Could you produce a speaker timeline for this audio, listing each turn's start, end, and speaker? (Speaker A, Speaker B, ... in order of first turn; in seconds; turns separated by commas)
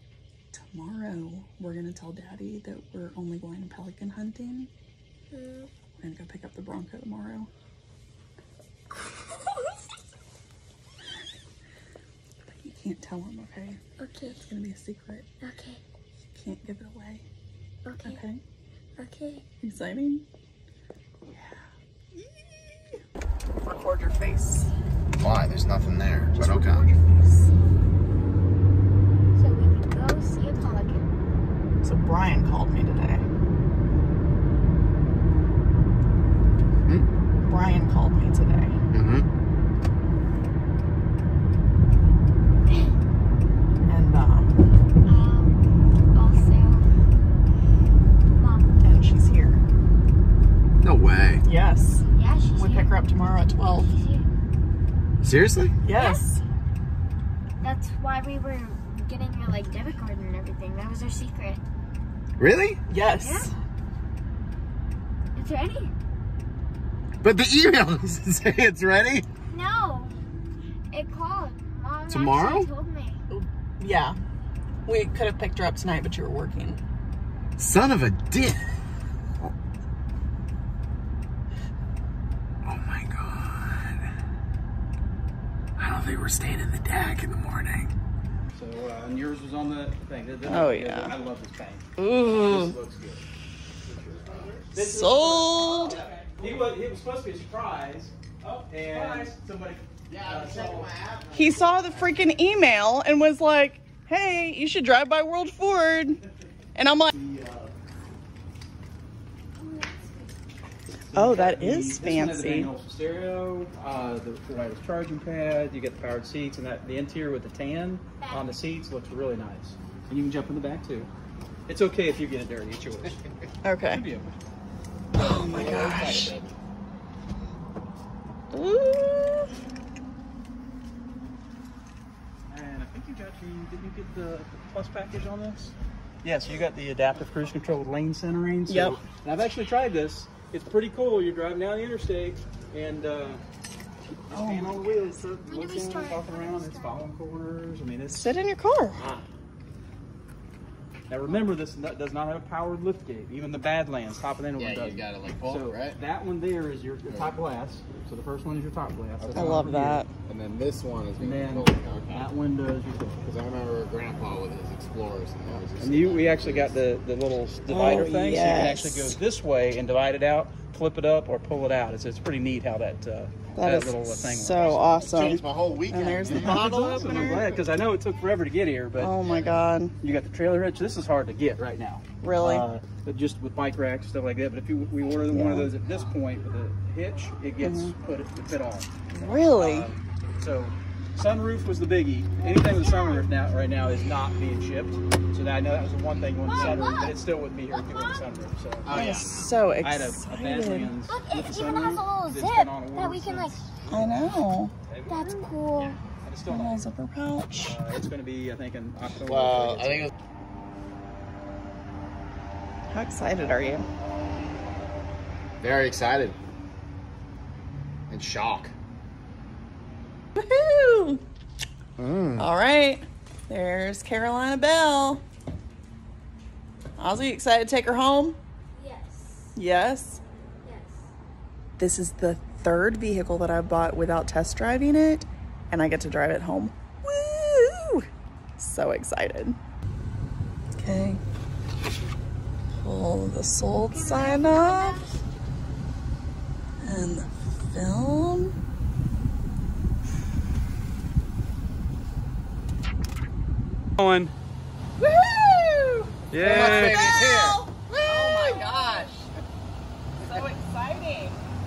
Speaker A: 0.5-4.7, Speaker B: 5.3-5.7, Speaker A: 6.0-7.5, Speaker A: 12.5-15.3, Speaker B: 14.0-14.5, Speaker B: 15.4-15.8, Speaker A: 16.3-17.2, Speaker B: 17.8-18.2, Speaker A: 18.0-18.4, Speaker B: 19.0-19.4, Speaker A: 19.6-20.2, Speaker A: 21.3-21.6, Speaker A: 22.1-23.0, Speaker A: 23.6-24.7, Speaker C: 25.2-26.9, Speaker A: 26.3-27.5, Speaker B: 29.3-31.1, Speaker A: 31.8-33.2, Speaker A: 37.4-38.8, Speaker C: 38.9-39.2, Speaker A: 43.8-44.6, Speaker B: 45.0-46.9, Speaker B: 48.4-48.7, Speaker A: 48.8-49.6, Speaker C: 50.8-51.4, Speaker A: 51.4-53.9, Speaker B: 52.1-53.0, Speaker B: 53.6-54.3, Speaker C: 55.2-55.7, Speaker A: 55.8-56.4, Speaker B: 55.9-56.4, Speaker B: 57.6-61.6, Speaker C: 62.4-62.8, Speaker A: 62.9-63.5, Speaker B: 63.2-63.5, Speaker B: 65.3-65.9, Speaker C: 67.2-69.2, Speaker B: 69.5-70.2, Speaker B: 70.9-73.2, Speaker C: 72.1-72.7, Speaker A: 73.3-74.2, Speaker A: 74.9-76.8, Speaker C: 77.6-78.6, Speaker C: 82.6-83.6, Speaker C: 85.8-87.9, Speaker D: 88.5-93.2, Speaker A: 90.5-91.1, Speaker A: 92.0-92.8, Speaker D: 93.9-101.0, Speaker C: 94.1-94.6, Speaker A: 94.7-96.0, Speaker C: 98.9-99.3, Speaker C: 100.1-102.1, Speaker A: 101.3-106.2, Speaker A: 106.8-107.1, Speaker D: 107.1-107.8, Speaker B: 109.6-110.3, Speaker D: 110.9-121.1, Speaker A: 111.1-112.7, Speaker B: 118.2-118.6, Speaker D: 121.7-123.2, Speaker A: 123.6-124.0, Speaker D: 123.8-124.4, Speaker C: 125.1-126.5, Speaker A: 125.2-126.3, Speaker A: 128.5-129.5, Speaker D: 132.5-143.4, Speaker A: 138.7-139.0, Speaker D: 144.3-148.4, Speaker A: 144.3-145.1, Speaker B: 145.4-147.0, Speaker A: 148.1-149.1, Speaker D: 151.1-160.1, Speaker C: 154.6-156.0, Speaker C: 157.1-157.3, Speaker C: 159.2-159.7, Speaker A: 159.3-160.1, Speaker C: 160.3-162.3, Speaker D: 161.2-163.2, Speaker C: 163.2-166.8, Speaker D: 165.5-175.0, Speaker A: 167.7-169.2, Speaker A: 173.5-177.4, Speaker C: 175.0-177.6, Speaker D: 176.3-179.1, Speaker A: 179.0-179.9, Speaker C: 179.2-179.6, Speaker D: 180.0-198.9, Speaker A: 182.2-182.7, Speaker A: 185.3-185.7, Speaker A: 187.6-187.9, Speaker A: 189.1-189.9, Speaker B: 192.5-193.3, Speaker B: 196.5-197.2, Speaker C: 196.5-196.8, Speaker B: 197.7-198.2, Speaker C: 198.8-199.5, Speaker A: 198.9-200.9, Speaker D: 199.8-205.5, Speaker B: 201.1-203.6, Speaker A: 203.9-204.7, Speaker B: 205.1-206.0, Speaker D: 206.2-206.9, Speaker A: 206.5-207.8, Speaker D: 207.6-210.1, Speaker C: 209.2-210.1, Speaker A: 212.9-213.8, Speaker C: 215.6-216.4, Speaker C: 218.1-218.7, Speaker A: 220.3-221.2, Speaker C: 222.0-222.5, Speaker A: 222.4-225.2, Speaker A: 227.0-228.4, Speaker B: 228.7-229.6, Speaker A: 229.6-230.2, Speaker B: 230.6-231.1, Speaker A: 231.8-238.1, Speaker A: 238.6-239.6, Speaker A: 240.8-241.2, Speaker A: 242.7-245.1, Speaker B: 243.8-245.2, Speaker A: 246.8-248.5, Speaker D: 254.0-254.3, Speaker A: 255.0-259.3, Speaker D: 256.3-257.0, Speaker C: 256.4-259.1, Speaker B: 258.6-258.9, Speaker A: 260.2-261.4